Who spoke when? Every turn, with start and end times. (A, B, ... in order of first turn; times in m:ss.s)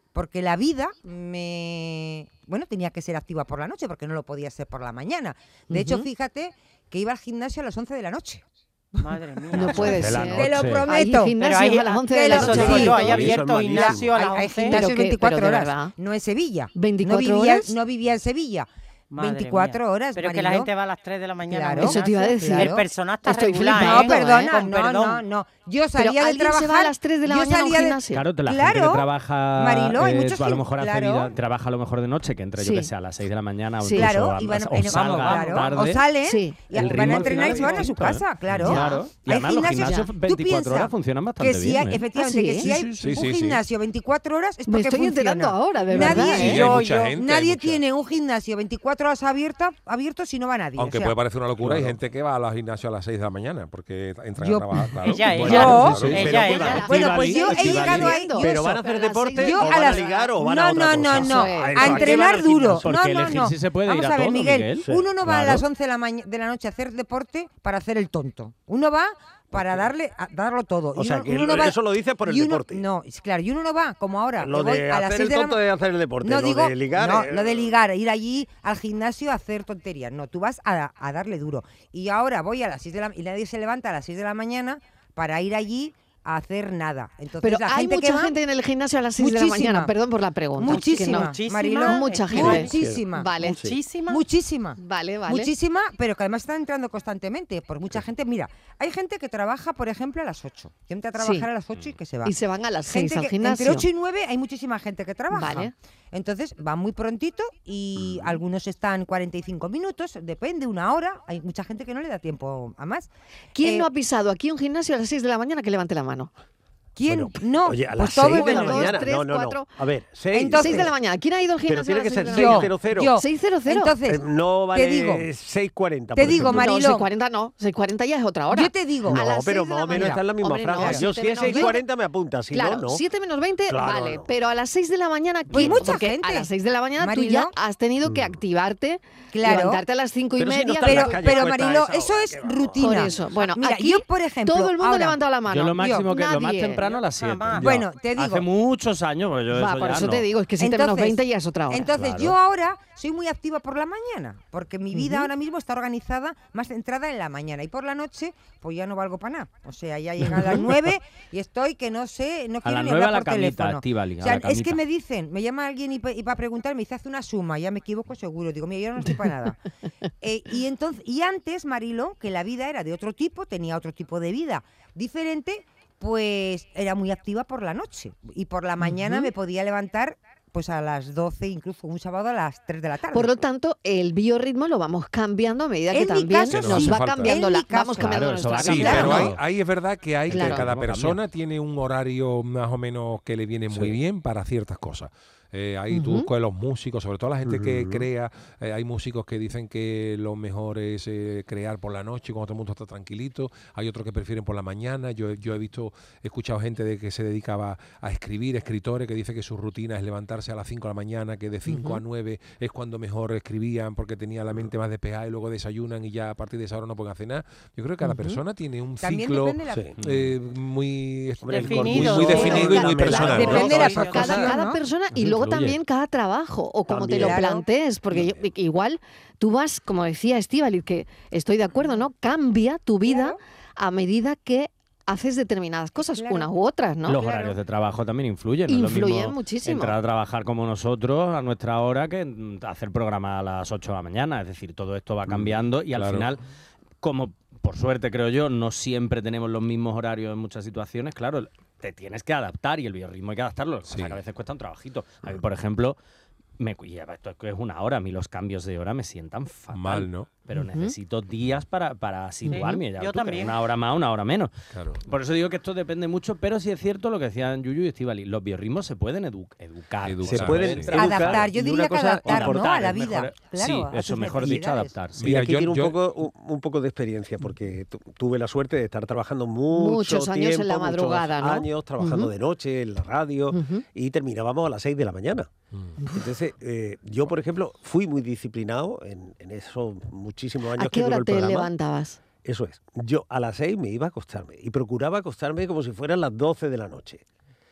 0:00.1-0:08.4 A
0:05.7-0:06.1 B
0:09.0-0:10.2 C
0:09.1-0:11.4 A
0:09.5-0:13.3 B
0:10.0-0:10.8 D
0:11.4-0:14.8 C
0:12.1-0:20.7 A
0:12.4-0:14.2 E
0:14.7-0:15.9 B
0:16.8-0:17.7 B
0:19.1-0:25.2 C
0:21.5-0:22.9 A
0:21.8-0:24.5 B
0:23.8-0:29.0 A
0:26.0-0:28.2 B
0:28.1-0:36.0 D
0:29.6-0:31.3 A
0:32.6-0:32.9 B
0:33.8-0:34.1 B
0:33.9-0:51.2 A
0:35.2-0:35.7 C
0:36.2-0:36.7 B
0:36.7-0:42.0 D
0:36.8-0:37.9 E
0:38.7-0:39.0 B
0:42.2-0:42.7 B
0:43.0-0:43.6 F
0:44.7-0:46.7 B
0:46.0-0:47.8 F
0:50.8-0:57.1 F
0:51.6-0:51.9 E
0:54.4-0:58.7 A
0:55.0-0:57.2 C
0:55.4-1:02.8 E
0:55.5-0:55.8 B
0:56.4-1:00.2 B
0:59.4-1:15.6 A
1:01.1-1:02.2 B
1:01.9-1:02.6 C
1:02.6-1:05.5 D
1:04.8-1:05.6 E
1:09.6-1:09.9 E
1:11.0-1:12.8 E
1:14.4-1:17.8 E
1:16.2-1:28.4 A
1:27.4-1:33.6 B
1:29.2-1:29.9 A
1:30.6-1:33.3 A
1:30.7-1:32.8 C
1:32.4-1:33.8 E
1:33.5-1:34.2 C
1:34.1-1:42.4 A
1:34.8-1:35.5 B
1:41.2-1:41.5 B
1:42.2-1:43.9 B
1:42.9-1:53.1 A
1:45.3-1:45.7 B
1:48.0-1:48.4 E
1:53.6-1:56.3 B
1:53.6-1:53.9 A
1:57.0-1:59.0 A
1:57.1-2:00.9 E
1:58.0-1:59.7 B
2:00.3-2:00.9 A
2:00.5-2:03.9 B
2:01.7-2:03.1 E
2:02.3-2:05.3 A
2:04.1-2:06.7 E
2:06.2-2:07.1 A
2:06.4-2:11.8 B
2:08.5-2:09.3 A
2:09.1-2:13.0 E
2:09.9-2:10.2 A
2:10.8-2:11.7 A
2:12.5-2:21.6 B
2:13.7-2:14.3 E
2:15.5-2:17.5 A
2:18.0-2:18.4 E
2:19.3-2:19.8 A
2:20.4-2:23.3 E
2:20.8-2:25.2 A
2:22.8-2:26.8 B
2:25.5-2:30.3 D
2:26.8-2:27.7 C
2:27.6-2:28.4 A
2:29.5-2:31.9 B
2:30.6-2:49.6 A
2:31.9-2:32.4 D
2:34.9-2:35.3 B
2:42.6-2:44.8 D
2:50.2-3:03.4 A
2:58.8-2:59.3 B
3:03.1-3:09.3 B
3:05.9-3:09.3 A
3:06.5-3:07.4 F
3:08.0-3:09.4 D
3:08.6-3:44.0 F
3:10.3-3:11.2 D
3:10.3-3:10.6 B
3:15.9-3:16.3 B
3:17.4-3:18.1 E
3:31.7-3:32.0 B
3:38.0-3:38.4 B
3:39.0-3:39.9 A
3:39.7-3:40.0 E
3:40.0-3:40.3 D
3:41.4-3:44.3 E
3:41.5-3:44.4 C
3:42.2-3:57.2 B
3:43.2-3:44.8 A
3:45.1-3:45.8 D
3:46.9-3:47.4 E
3:47.0-3:47.7 A
3:48.1-3:48.4 E
3:53.1-3:53.4 A
3:56.0-3:56.5 A
3:57.1-4:06.4 D
3:58.7-3:59.9 B
4:05.3-4:06.3 F
4:07.0-4:16.0 D
4:13.9-4:14.2 F
4:16.6-4:24.5 D
4:19.7-4:20.3 F
4:20.5-4:20.9 B
4:22.5-4:22.8 B
4:22.5-4:23.6 C
4:24.7-4:25.0 F
4:25.1-4:31.5 D
4:30.0-4:31.0 F
4:30.3-4:33.0 E
4:30.9-4:35.0 A
4:32.2-4:35.3 D
4:35.2-4:36.0 F
4:35.2-4:45.5 E
4:39.7-4:42.3 B
4:43.5-4:43.8 B
4:46.1-4:51.7 E
4:50.8-4:52.2 B
4:52.4-4:57.2 E